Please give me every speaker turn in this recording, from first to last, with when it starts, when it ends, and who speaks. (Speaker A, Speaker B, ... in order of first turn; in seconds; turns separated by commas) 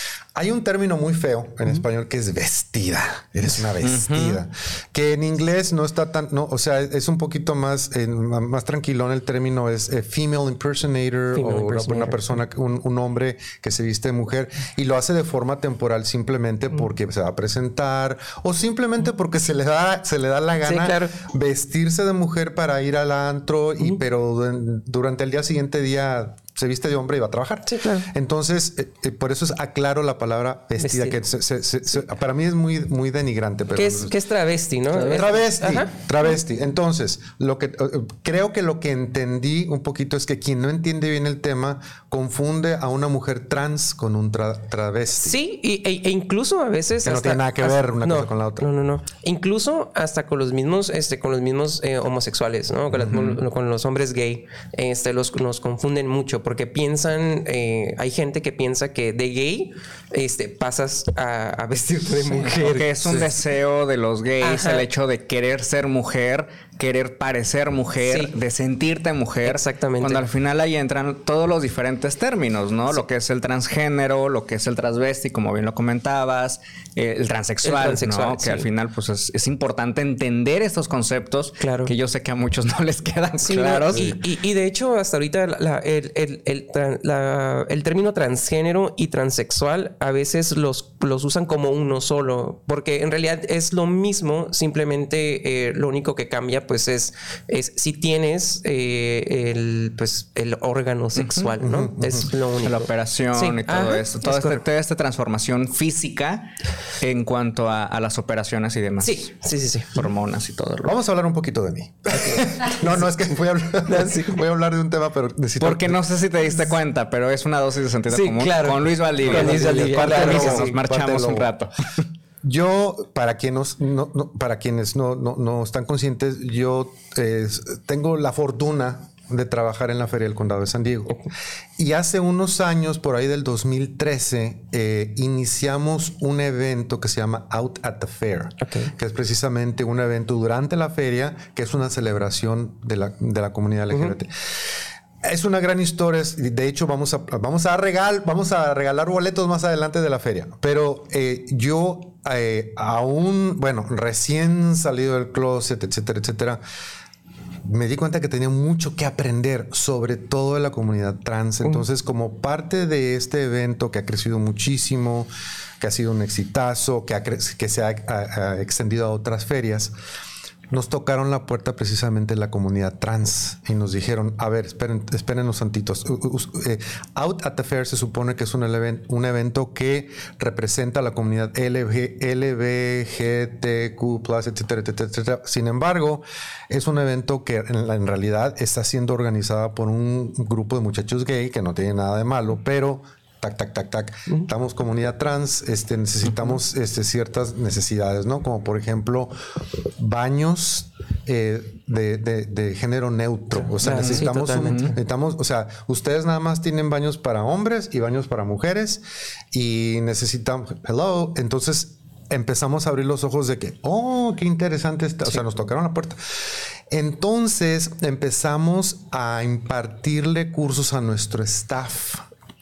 Speaker A: 0.3-34.1, Speaker B: 3.8-4.4, Speaker C: 11.3-12.2, Speaker C: 20.6-21.2, Speaker C: 27.7-28.1, Speaker C: 30.8-31.2, Speaker C: 33.8-35.9, Speaker A: 34.9-45.4, Speaker C: 45.2-63.3, Speaker A: 47.0-48.7, Speaker A: 52.9-53.3, Speaker B: 53.1-53.4, Speaker B: 62.4-84.2, Speaker C: 64.4-64.9, Speaker C: 68.0-68.3, Speaker C: 69.5-70.3, Speaker C: 77.6-78.7, Speaker C: 81.6-81.9, Speaker C: 83.4-104.6, Speaker B: 101.2-101.5, Speaker A: 101.6-102.3, Speaker B: 102.6-109.3, Speaker C: 109.0-110.1, Speaker B: 109.9-111.0, Speaker A: 110.8-116.1, Speaker C: 112.1-113.1, Speaker C: 113.8-114.4, Speaker B: 115.6-122.0, Speaker C: 118.1-120.8, Speaker A: 119.3-121.5, Speaker A: 122.4-131.2, Speaker A: 131.8-156.6, Speaker C: 138.6-138.9, Speaker A: 157.6-169.9, Speaker A: 170.7-199.3, Speaker A: 200.0-222.3, Speaker C: 203.8-205.0, Speaker B: 203.9-204.9